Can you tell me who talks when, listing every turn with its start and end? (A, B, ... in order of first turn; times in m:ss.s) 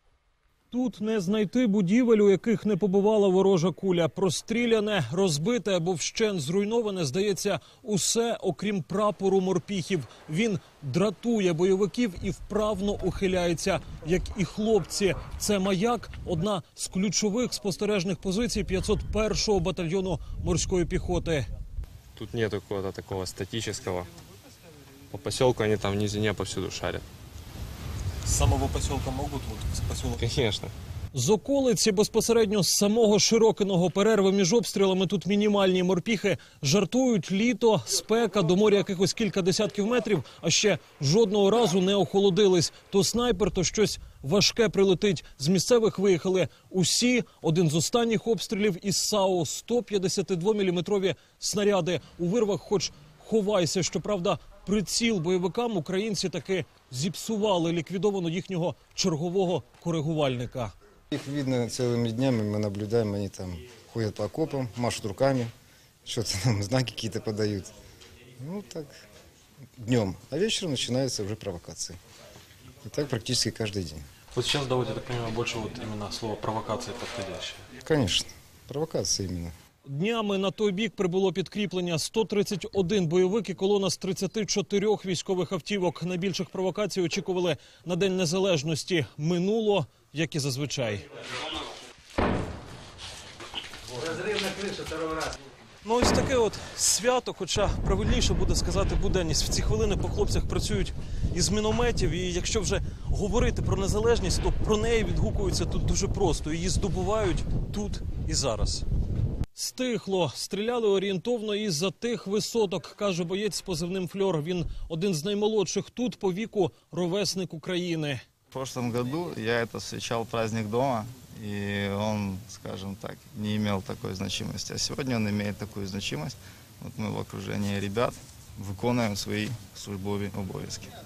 0:00.7-0:21.5 A
0:22.2-0:24.1 B
0:25.1-0:27.0 B
0:28.2-0:30.3 C
0:30.2-0:30.7 B
0:31.1-1:00.7 A
1:01.1-1:05.5 D
1:06.0-1:07.7 D
1:08.4-1:09.0 D
1:09.8-1:12.0 D
1:12.8-1:14.0 D
1:14.3-1:17.6 C
1:17.8-1:19.5 D
1:19.8-1:31.0 A
1:34.6-1:35.0 C
1:35.8-1:48.8 A
1:49.6-1:58.2 A
1:58.5-2:10.9 E